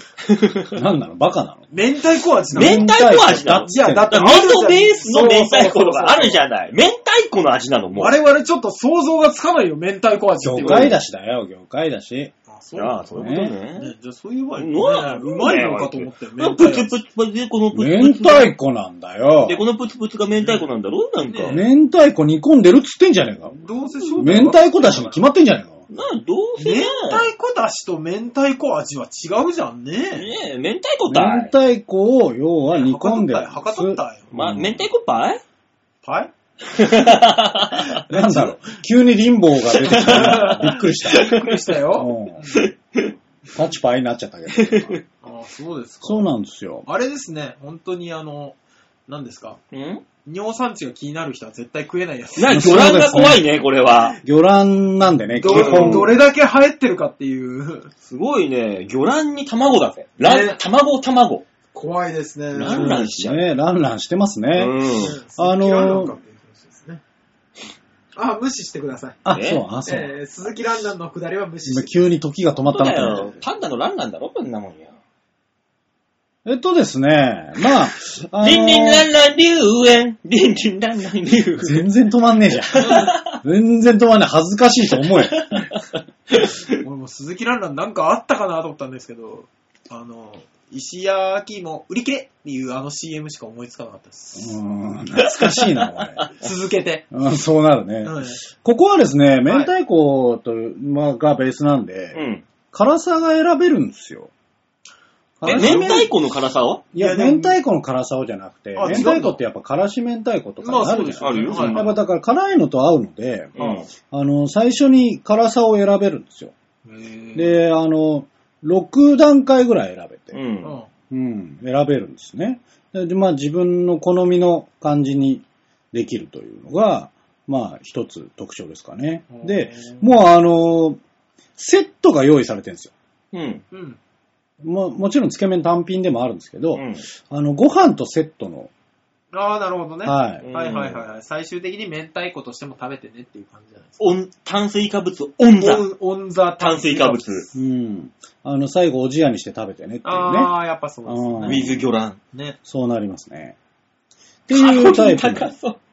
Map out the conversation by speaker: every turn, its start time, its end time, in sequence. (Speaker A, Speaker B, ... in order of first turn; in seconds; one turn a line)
Speaker A: 0.3-0.7
Speaker B: 0.7-1.7
Speaker C: 1.7-3.0
Speaker B: 2.5-4.2
Speaker A: 2.5-8.2
Speaker C: 3.6-6.4
Speaker C: 7.9-11.0
Speaker B: 10.4-12.3
Speaker A: 10.6-10.8
Speaker C: 12.5-16.9
Speaker A: 12.8-13.9
Speaker B: 13.2-13.5
Speaker A: 14.6-18.5
Speaker B: 17.7-19.6
Speaker A: 19.4-21.6
Speaker C: 21.2-21.6
Speaker B: 21.5-23.6
Speaker C: 23.5-25.2
Speaker B: 24.1-25.9
Speaker A: 25.9-27.3
Speaker C: 26.6-30.3
Speaker A: 30.1-31.5
Speaker B: 31.1-34.9
Speaker C: 32.7-34.3
Speaker A: 34.3-35.4
Speaker C: 36.0-36.3
Speaker A: 36.7-38.0
Speaker B: 38.1-42.5
Speaker C: 38.1-38.5
Speaker A: 39.8-41.6
Speaker C: 40.0-42.7
Speaker A: 42.5-43.1
Speaker B: 43.5-45.0
Speaker A: 44.5-45.0
Speaker C: 45.2-46.2
Speaker B: 46.0-46.9
Speaker C: 46.9-48.5
Speaker C: 49.1-49.6
Speaker A: 49.7-50.0
Speaker C: 50.2-53.0
Speaker A: 52.4-54.2
Speaker B: 52.5-53.4
Speaker B: 54.2-56.1
Speaker C: 55.3-57.9
Speaker A: 55.4-56.1
Speaker A: 58.0-61.4
Speaker C: 60.2-60.6
Speaker C: 61.7-63.0
Speaker A: 62.5-63.4
Speaker B: 62.5-66.1
Speaker A: 64.5-65.2
Speaker C: 65.0-67.0
Speaker C: 68.2-69.2
Speaker B: 69.2-70.1
Speaker A: 69.3-69.6
Speaker C: 69.8-72.1
Speaker B: 71.7-73.4
Speaker A: 72.7-74.9
Speaker B: 76.4-79.1
Speaker A: 78.4-81.8
Speaker B: 81.6-85.6
Speaker A: 82.7-83.4
Speaker A: 85.1-86.7
Speaker C: 86.8-94.6
Speaker B: 94.3-96.2
Speaker A: 95.2-96.3
Speaker C: 96.4-97.1
Speaker B: 97.1-104.3
Speaker C: 98.0-98.4
Speaker C: 99.5-99.7
Speaker A: 102.1-102.4
Speaker B: 105.4-106.1
Speaker C: 105.4-106.0
Speaker A: 105.5-106.8
Speaker C: 106.9-107.6
Speaker B: 106.9-116.5
Speaker C: 108.7-109.4
Speaker C: 110.6-111.8
Speaker A: 111.2-111.9
Speaker A: 113.5-113.9
Speaker C: 113.6-113.8
Speaker C: 116.8-117.6
Speaker B: 117.3-120.4
Speaker A: 120.3-120.8
Speaker C: 120.6-120.9
Speaker B: 121.1-131.0
Speaker C: 129.3-130.1
Speaker B: 131.6-132.9
Speaker A: 133.3-133.6
Speaker C: 133.7-134.0
Speaker B: 134.6-138.7
Speaker A: 136.7-137.0
Speaker C: 139.3-144.2
Speaker B: 140.0-140.4
Speaker A: 140.4-141.0
Speaker A: 144.0-145.8
Speaker C: 145.6-147.5
Speaker A: 146.6-147.4
Speaker B: 147.5-150.5
Speaker C: 150.0-151.8
Speaker B: 151.1-151.9
Speaker A: 151.4-152.2
Speaker B: 152.7-153.6
Speaker B: 154.5-155.5
Speaker A: 154.5-155.8